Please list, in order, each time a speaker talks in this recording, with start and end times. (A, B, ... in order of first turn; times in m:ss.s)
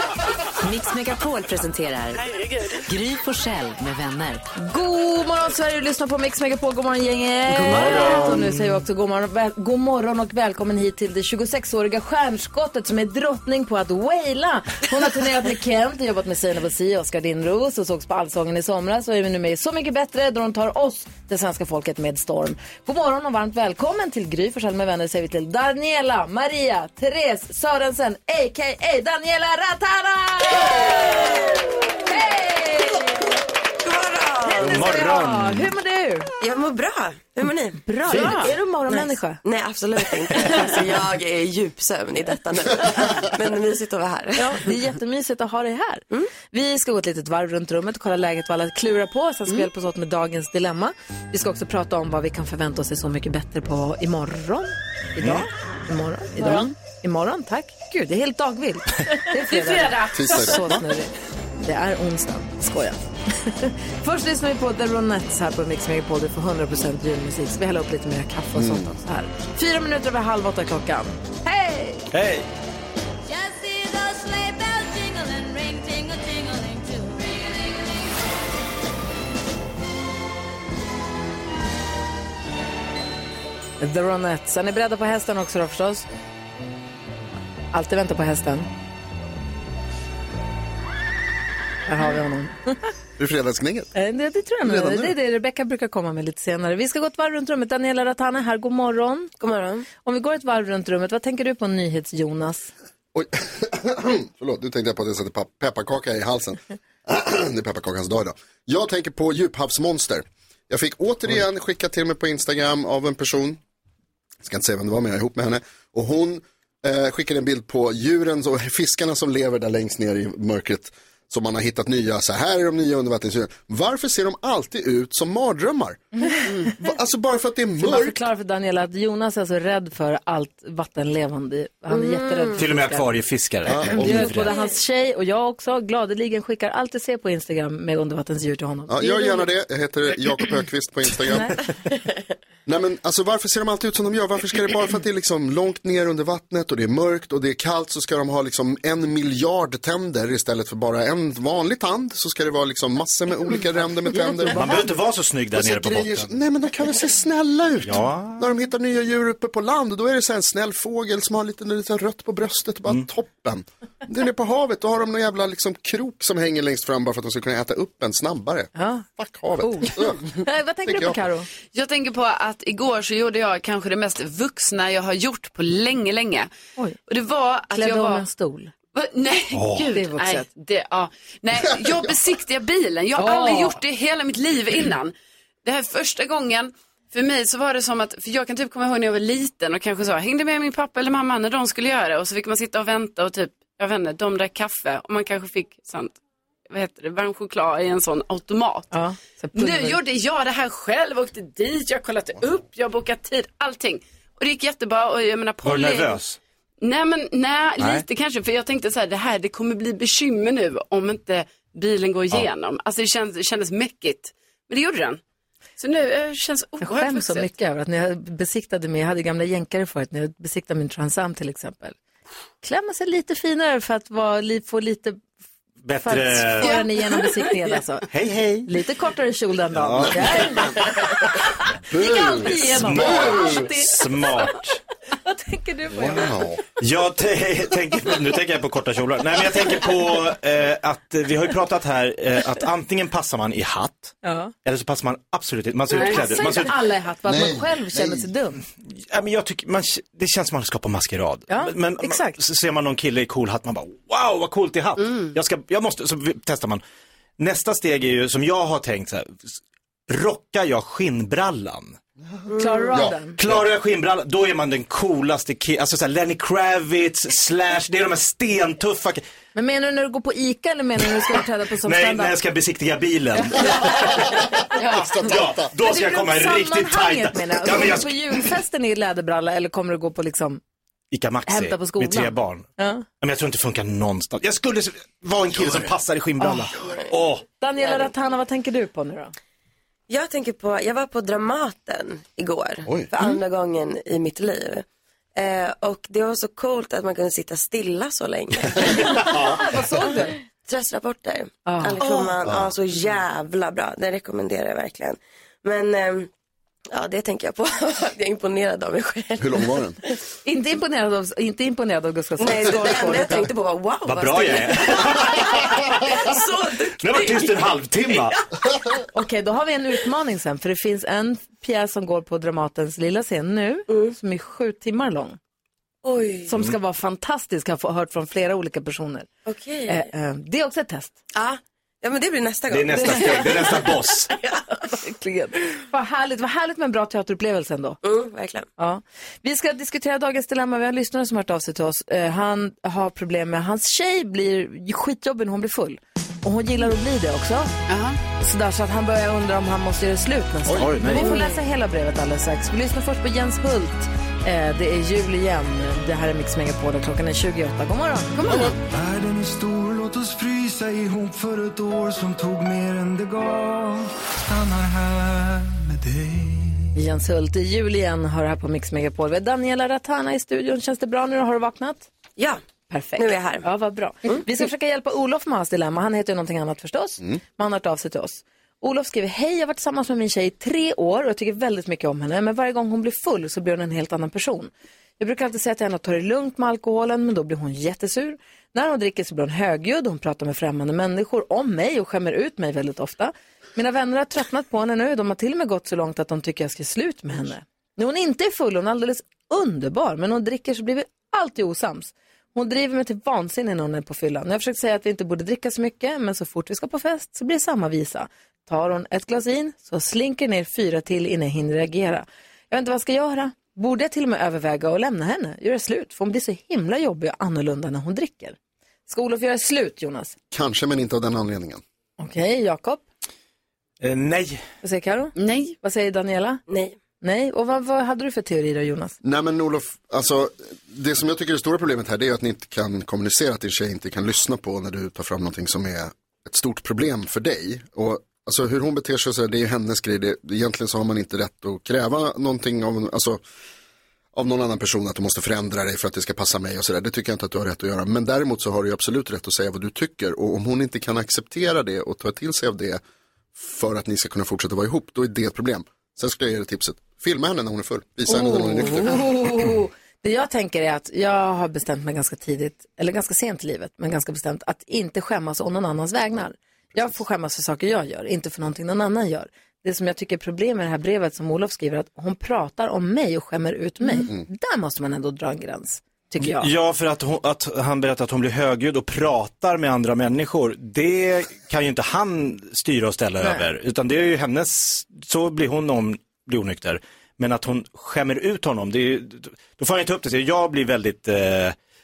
0:00.6-0:02.2 A
0:02.2-0:02.8 B
0:02.9-0:04.4 A
0:04.6-0:33.3 C
0:07.6-0:08.5 D
0:07.6-0:07.9 A
0:33.8-0:34.9 E
0:34.4-0:36.3 C
0:34.6-0:35.7 D
0:36.4-0:44.6 E
0:37.8-0:39.4 C
0:44.4-1:01.1 C
0:55.2-0:55.4 D
0:59.4-1:00.6 B
1:00.1-1:00.7 F
1:01.6-1:12.1 C
1:08.6-1:08.9 F
1:12.1-1:12.5 D
1:13.3-1:18.2 G
1:23.8-1:26.0 C
1:27.7-1:28.7 C
1:31.9-1:32.8 C
1:33.2-1:33.9 F
1:34.0-1:39.3 C
1:34.6-1:35.1 F
1:39.4-1:39.9 E
1:40.0-1:42.7 C
1:43.1-1:53.6 F
1:54.4-2:06.0 F
2:06.6-2:08.2 F
2:07.8-2:13.0 C
2:11.9-2:12.6 E
2:12.6-2:14.5 D
2:13.7-2:14.4 F
2:14.0-2:19.5 C
2:18.9-2:21.6 F
2:22.7-2:34.8 F
2:34.1-2:34.8 C
2:34.5-2:36.3 D
2:35.5-2:50.3 F
2:37.8-2:38.4 D
2:48.8-2:49.1 C
2:49.6-2:51.5 C
2:50.8-2:51.2 F
2:51.7-2:56.5 B
2:57.1-2:58.2 B
2:57.7-2:58.7 C
2:58.9-3:18.9 B
2:59.5-2:59.9 D
2:59.9-3:00.5 C
3:03.2-3:03.8 C
3:18.9-3:20.0 C
3:19.5-3:26.2 B
3:25.6-3:26.4 D
3:26.8-3:35.2 B
3:27.8-3:28.0 D
3:35.8-3:37.5 B
3:36.8-3:42.0 C
3:42.6-3:45.2 C
3:45.8-3:46.8 D
3:46.0-3:48.1 C
3:46.6-3:47.7 B
3:48.1-3:48.7 D
3:48.7-3:50.8 C
3:49.8-3:50.5 D
3:51.9-3:53.6 F
3:51.9-3:54.5 C
3:52.2-3:54.8 D
3:55.2-3:56.4 C
3:55.9-3:56.6 F
3:56.8-4:06.8 D
4:04.2-4:04.5 C
4:05.9-4:06.6 B
4:05.9-4:08.6 C
4:07.3-4:08.3 F
4:09.0-4:16.8 D
4:11.5-4:12.4 C
4:17.4-4:19.6 D
4:20.1-4:22.0 D
4:22.5-4:22.9 E
4:22.6-4:23.4 C
4:22.9-4:23.6 F
4:23.4-4:29.2 D
4:29.6-4:32.3 C
4:31.8-4:34.3 D
4:33.4-4:34.1 C
4:34.8-4:35.1 C
4:35.0-4:35.7 F
4:35.1-4:38.4 D
4:35.8-4:40.6 C
4:41.1-4:42.7 D
4:41.5-4:43.0 C
4:43.2-4:47.4 D
4:45.6-4:45.9 F
4:46.4-4:46.7 C
4:47.6-4:49.3 C
4:50.1-4:54.8 E
4:55.4-4:59.1 E
4:59.0-5:00.4 C
5:00.6-5:06.3 E
5:01.7-5:02.4 C
5:02.4-5:02.7 F
5:06.9-5:09.7 E
5:09.4-5:10.0 F
5:10.4-5:13.5 C
5:12.4-5:18.3 E
5:14.0-5:16.2 D
5:17.0-5:18.4 D
5:19.1-5:25.4 C
5:23.9-5:24.2 E
5:26.0-5:26.5 E
5:26.5-5:29.3 C
5:29.5-5:30.1 E
5:29.9-5:31.2 C
5:31.4-5:33.6 E
5:32.7-5:34.3 D
5:33.0-5:33.7 C
5:34.3-5:34.8 E
5:35.0-5:38.0 C
5:38.0-5:38.7 E
5:38.8-5:47.7 C
5:47.9-5:48.2 B
5:48.4-5:58.7 C
5:50.7-5:50.9 F
5:50.8-5:51.3 D
5:58.9-6:06.9 H
6:07.0-6:12.1 C
6:12.9-7:00.4 C
6:13.2-6:13.7 E
7:00.5-7:01.8 F
7:02.2-7:03.0 C
7:04.0-7:04.6 D
7:04.8-7:06.6 C
7:05.4-7:05.7 B
7:06.7-7:07.0 E
7:07.2-7:09.2 C
7:09.2-7:23.4 F
7:24.3-7:33.0 F
7:33.6-7:39.2 F
7:38.3-7:56.7 C
7:56.4-8:11.8 D